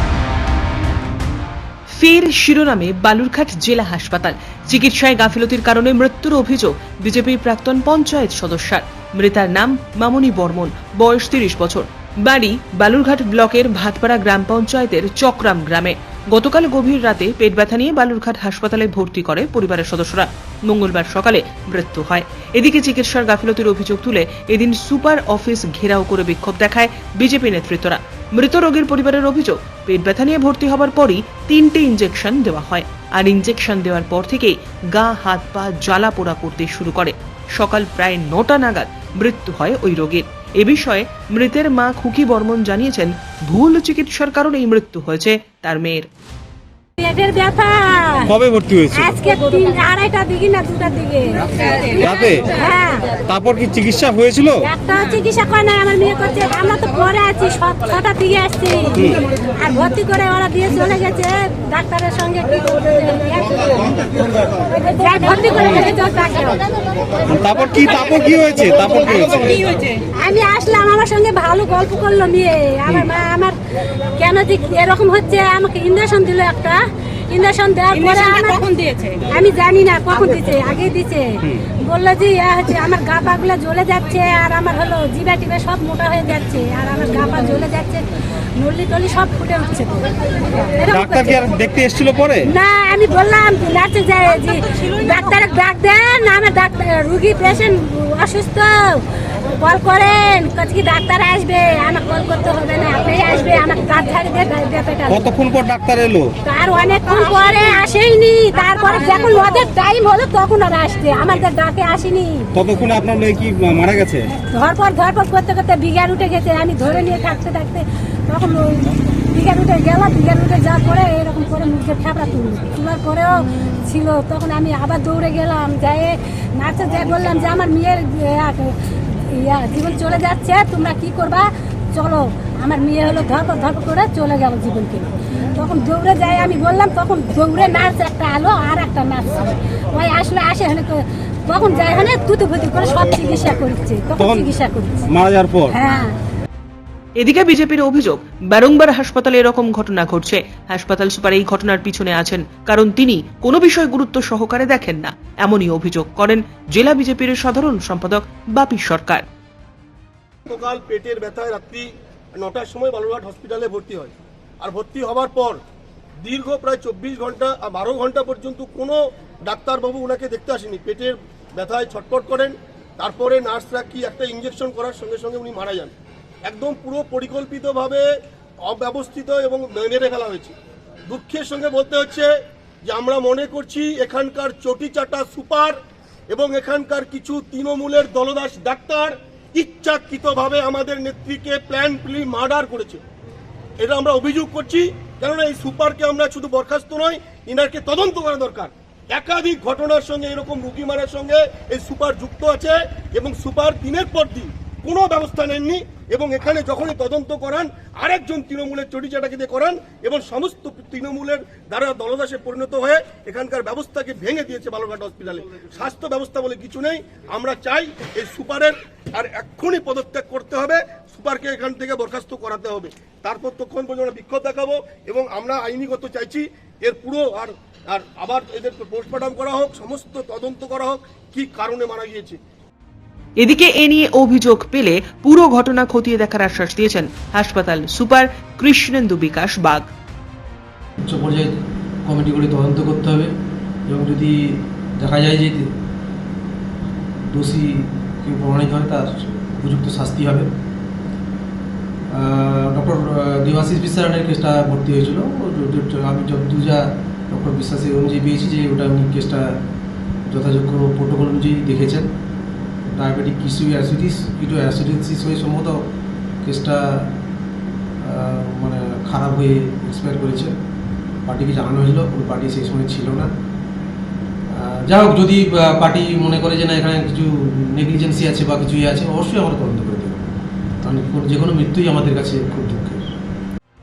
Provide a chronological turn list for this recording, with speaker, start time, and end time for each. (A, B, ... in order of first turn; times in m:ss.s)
0:01.9-0:46.1 A
0:47.0-0:48.3 B
0:48.3-0:49.1 C
0:48.9-0:53.1 B
0:52.0-0:52.5 C
0:53.2-0:54.6 C
0:54.6-1:06.6 B
1:05.6-1:05.8 C
1:07.2-1:09.7 C
1:10.1-1:13.5 B
1:14.1-1:18.7 B
1:19.2-1:28.0 B
1:28.6-1:31.5 B
1:30.9-1:32.4 C
1:32.4-1:39.0 B
1:39.6-1:45.3 B
1:45.1-1:46.3 C
1:46.4-1:52.5 B
1:52.5-1:54.2 C
1:54.3-2:08.8 B
2:09.3-2:25.0 B
2:24.2-2:24.5 C
2:25.1-2:25.7 C
2:25.7-2:26.1 B
2:27.2-2:39.2 A
2:40.4-2:45.6 D
2:46.2-2:58.1 D
2:58.6-3:00.5 D
3:01.1-3:02.3 D
3:02.8-3:05.8 D
3:06.3-3:13.0 D
3:13.8-3:52.4 D
3:53.4-3:59.9 A
4:01.0-4:01.5 E
4:02.0-4:03.3 E
4:03.9-4:05.7 E
4:07.3-4:10.5 E
4:12.1-4:19.6 E
4:20.3-4:22.1 E
4:22.8-4:25.8 E
4:26.4-4:27.1 E
4:28.0-4:30.5 E
4:31.3-4:33.3 E
4:34.5-4:43.1 E